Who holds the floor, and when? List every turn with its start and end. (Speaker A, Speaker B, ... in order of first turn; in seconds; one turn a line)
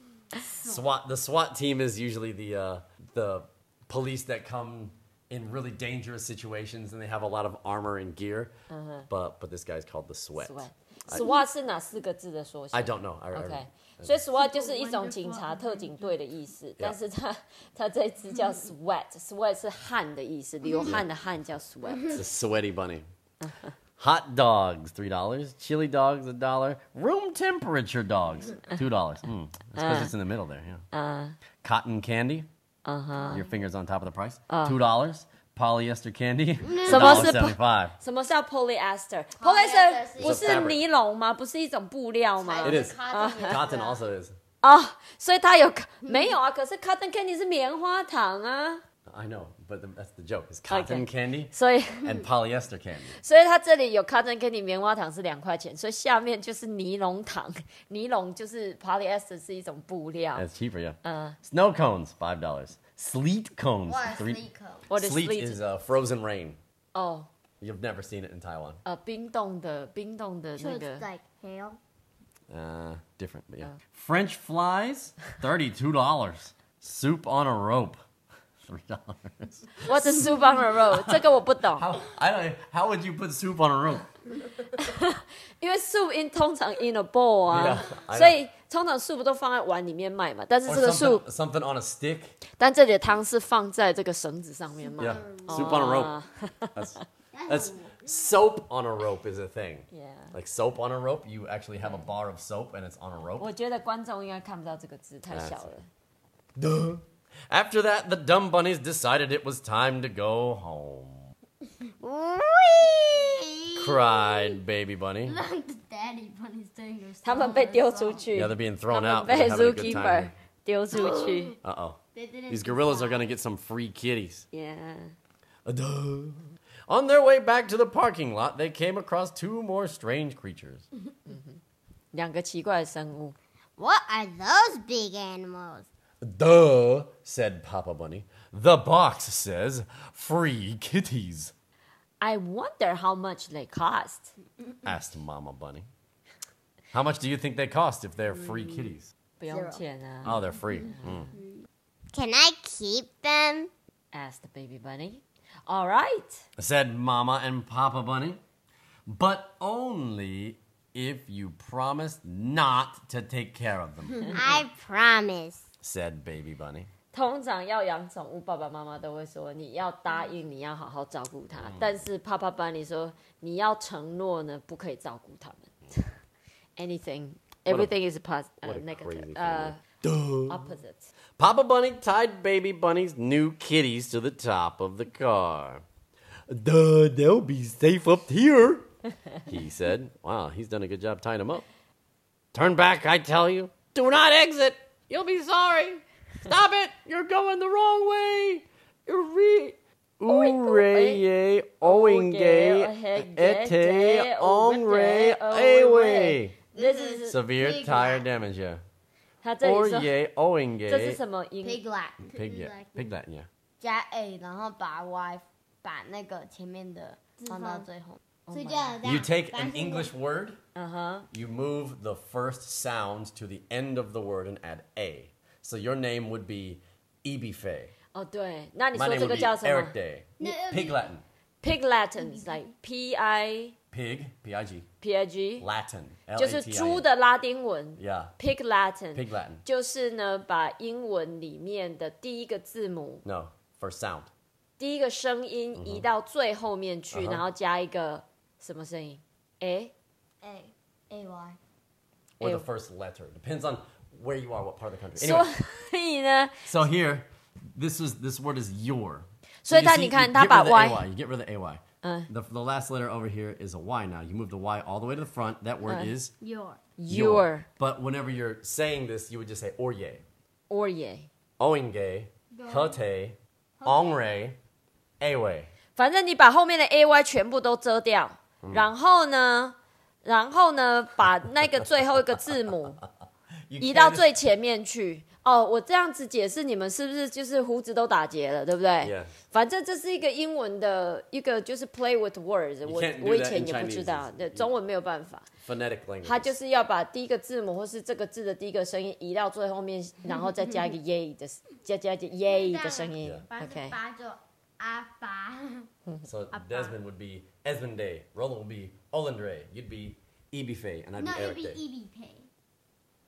Speaker A: 0.6-8.5
Speaker B: 0.6-0.8
Speaker C: 8.7-9.1
Speaker A: 9.1-11.2
Speaker C: 10.4-22.2
Speaker A: 12.7-14.1
Speaker B: 14.3-16.1
Speaker A: 22.1-23.0
Speaker C: 23.4-23.7
Speaker A: 24.0-30.8
Speaker C: 29.8-30.1
Speaker C: 30.9-31.4
Speaker A: 31.6-32.5
Speaker C: 32.9-33.4
Speaker A: 33.3-38.0
Speaker C: 34.5-34.8
Speaker B: 36.6-37.3
Speaker C: 36.9-43.6
Speaker B: 39.4-40.7
Speaker A: 40.2-40.8
Speaker B: 42.4-44.0
Speaker A: 42.6-44.3
Speaker C: 44.6-48.8
Speaker B: 46.0-46.3
Speaker A: 49.0-53.2
Speaker C: 50.7-52.1
Speaker C: 53.2-60.5
Speaker A: 60.3-66.6
Speaker C: 61.0-61.4
Speaker B: 63.9-64.8
Speaker C: 64.9-65.6
Speaker C: 66.9-67.3
Speaker A: 67.6-68.8
Speaker C: 68.8-71.0
Speaker B: 70.6-71.8
Speaker A: 72.5-78.0
Speaker A: 78.6-80.3
Speaker C: 79.8-81.9
Speaker A: 80.9-84.1
Speaker C: 84.8-91.2
Speaker A: 87.5-88.4
Speaker A: 90.7-92.3
Speaker C: 92.6-97.0
Speaker B: 94.8-96.0
Speaker A: 95.0-96.1
Speaker A: 96.7-103.5
Speaker B: 97.3-98.0
Speaker C: 99.9-100.3
Speaker C: 103.4-105.9
Speaker A: 105.3-105.7
Speaker A: 106.5-111.3
Speaker D: 112.0-114.0
Speaker A: 113.8-115.4
Speaker B: 115.2-118.2
Speaker C: 117.2-121.6
Speaker A: 118.3-120.3
Speaker B: 120.9-121.5
Speaker A: 121.6-124.5
Speaker B: 122.1-123.3
Speaker C: 124.5-125.1
Speaker A: 125.6-130.8
Speaker C: 131.3-131.6
Speaker C: 132.1-133.3
Speaker D: 133.8-135.9
Speaker A: 136.2-141.5
Speaker C: 142.2-144.3
Speaker A: 144.8-145.9
Speaker A: 146.9-149.1
Speaker C: 149.4-151.3
Speaker B: 149.5-149.8
Speaker A: 150.2-151.3
Speaker B: 151.3-151.6
Speaker D: 152.1-153.7
Speaker C: 154.1-156.4
Speaker A: 156.6-158.4
Speaker A: 159.1-164.5
Speaker D: 164.3-165.6
Speaker A: 165.8-166.9
Speaker C: 167.1-176.2
Speaker A: 171.5-171.9
Speaker C: 176.8-179.8
Speaker A: 177.7-177.9
Speaker A: 178.6-180.7
Speaker C: 180.5-181.1
Speaker A: 181.4-185.8
Speaker A: 186.5-188.9
Speaker A: 189.4-191.7
Speaker A: 192.5-206.6
Speaker C: 200.2-201.2
Speaker C: 201.8-207.4
Speaker B: 206.7-208.3
Speaker A: 207.2-208.8
Speaker C: 209.4-210.1
Speaker A: 209.6-211.2
Speaker C: 210.9-211.8
Speaker B: 211.6-213.1
Speaker A: 212.3-213.5
Speaker B: 213.8-220.1
Speaker C: 217.5-217.9
Speaker C: 218.5-219.0
Speaker A: 219.0-220.6
Speaker C: 220.7-221.2
Speaker A: 221.3-227.9
Speaker C: 228.1-229.9
Speaker A: 228.9-231.2
Speaker B: 230.4-231.1
Speaker C: 231.6-233.8
Speaker B: 232.2-232.6
Speaker A: 233.9-234.9
Speaker C: 235.0-235.7
Speaker A: 235.6-237.1
Speaker C: 236.3-243.2
Speaker A: 238.0-238.3
Speaker A: 239.1-239.6
Speaker A: 243.2-244.3
Speaker C: 244.8-249.9
Speaker A: 245.7-246.1
Speaker A: 247.1-247.4
Speaker B: 250.4-251.6
Speaker A: 252.4-255.5
Speaker C: 255.2-256.6
Speaker A: 256.6-266.3
Speaker C: 259.6-261.0
Speaker C: 262.0-262.3
Speaker C: 265.9-266.1
Speaker B: 266.4-266.8
Speaker C: 267.0-267.7
Speaker A: 267.1-270.2
Speaker C: 270.7-271.3
Speaker A: 271.6-274.6
Speaker B: 272.5-273.0
Speaker B: 273.8-274.1
Speaker A: 275.2-275.7
Speaker C: 275.9-283.0
Speaker A: 283.7-284.3
Speaker C: 283.8-295.5
Speaker A: 289.0-289.3
Speaker A: 292.8-294.7
Speaker A: 295.6-296.5
Speaker C: 296.2-304.0
Speaker B: 302.5-305.9
Speaker A: 306.2-311.8
Speaker B: 306.6-306.9
Speaker B: 311.2-312.5